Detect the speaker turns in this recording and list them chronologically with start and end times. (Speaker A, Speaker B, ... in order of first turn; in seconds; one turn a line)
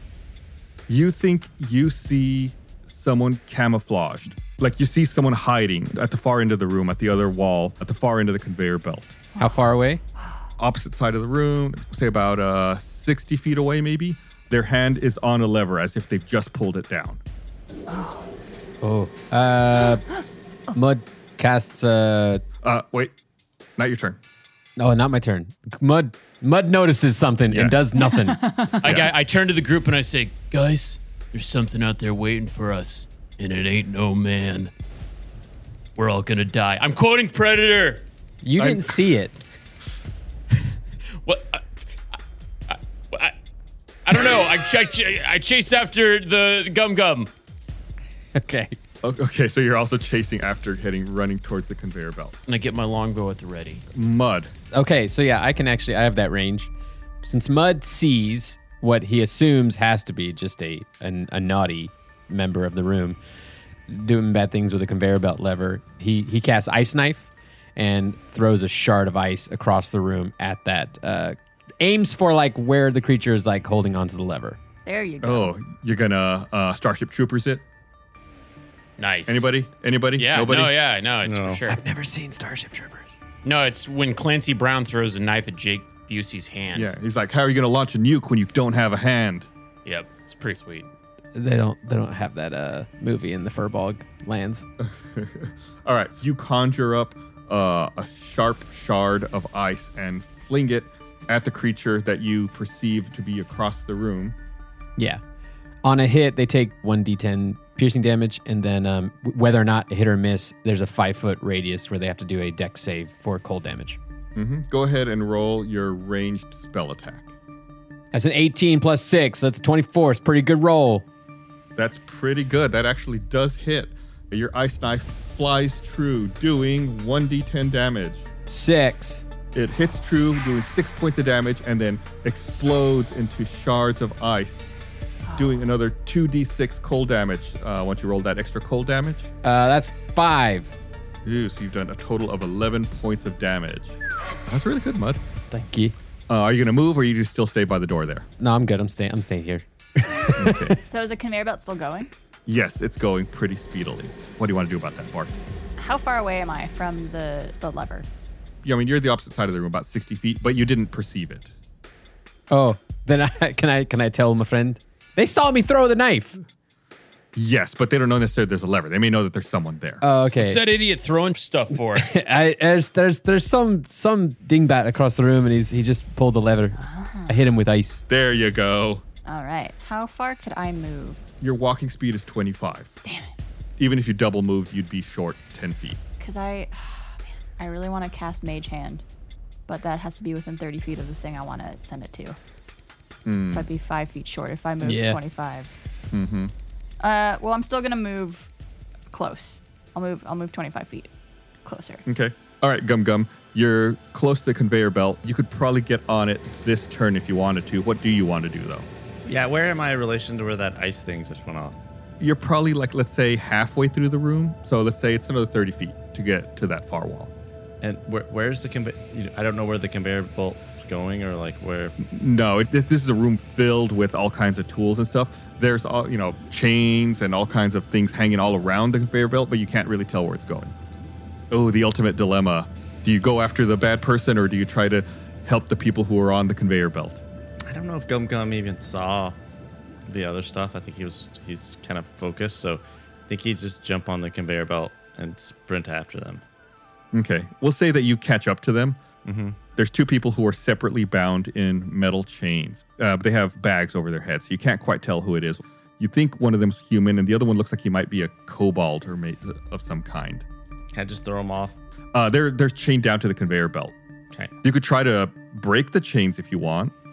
Speaker A: 0.9-9.1
Speaker B: 9.4-10.0
Speaker A: 10.6-17.2
Speaker C: 17.9-18.2
Speaker B: 18.8-20.0
Speaker B: 20.7-22.4
Speaker A: 22.6-23.1
Speaker A: 23.8-24.2
Speaker B: 24.8-28.4
Speaker A: 27.5-27.8
Speaker C: 28.0-28.8
Speaker D: 28.8-34.7
Speaker A: 28.8-29.1
Speaker D: 36.0-38.0
Speaker B: 38.4-39.3
Speaker A: 38.6-39.0
Speaker D: 41.2-41.6
Speaker D: 42.7-43.3
Speaker D: 44.0-47.3
Speaker B: 48.3-48.8
Speaker A: 49.0-52.3
Speaker D: 52.5-53.8
Speaker A: 53.9-54.5
Speaker B: 54.7-56.7
Speaker B: 57.2-63.2
Speaker B: 63.9-74.6
Speaker C: 74.8-75.5
Speaker A: 75.2-77.6
Speaker D: 79.0-79.5
Speaker A: 79.3-80.7
Speaker D: 80.2-81.8
Speaker E: 81.2-81.6
Speaker B: 81.7-83.2
Speaker D: 83.4-86.9
Speaker A: 86.7-89.5
Speaker D: 89.8-90.9
Speaker B: 91.3-94.7
Speaker A: 94.8-104.3
Speaker B: 105.8-114.0
Speaker A: 114.3-117.3
Speaker B: 118.1-121.0
Speaker A: 121.8-128.2
Speaker B: 128.5-129.3
Speaker A: 129.5-134.7
Speaker C: 135.2-135.6
Speaker A: 135.3-139.3
Speaker B: 139.4-140.7
Speaker A: 141.2-143.9
Speaker A: 144.5-145.2
Speaker B: 145.5-145.9
Speaker A: 146.3-148.3
Speaker B: 148.4-150.7
Speaker A: 150.3-150.8
Speaker C: 150.8-152.1
Speaker A: 152.5-155.3
Speaker C: 155.8-158.1
Speaker A: 158.6-161.5
Speaker B: 162.5-166.4
Speaker A: 167.3-170.0
Speaker B: 170.0-170.6
Speaker D: 170.4-172.1
Speaker B: 171.9-178.0
Speaker C: 176.8-177.4
Speaker A: 178.1-179.0
Speaker C: 179.2-181.2
Speaker A: 181.4-182.9
Speaker C: 183.0-183.3
Speaker A: 183.8-186.0
Speaker C: 186.2-189.0
Speaker C: 189.7-192.4
Speaker A: 193.2-193.7
Speaker C: 193.5-195.7
Speaker B: 194.8-195.2
Speaker A: 196.1-196.5
Speaker C: 197.0-198.5
Speaker C: 199.1-201.1
Speaker C: 201.6-202.0
Speaker A: 202.1-208.9
Speaker E: 209.2-211.8
Speaker A: 212.2-217.3
Speaker E: 217.8-221.9
Speaker A: 222.0-230.7
Speaker A: 231.5-237.2
Speaker E: 237.7-239.4
Speaker E: 240.0-246.4
Speaker A: 247.1-249.0
Speaker E: 249.2-249.6
Speaker A: 249.8-260.4
Speaker E: 260.9-261.8
Speaker A: 262.1-263.9
Speaker A: 264.6-266.9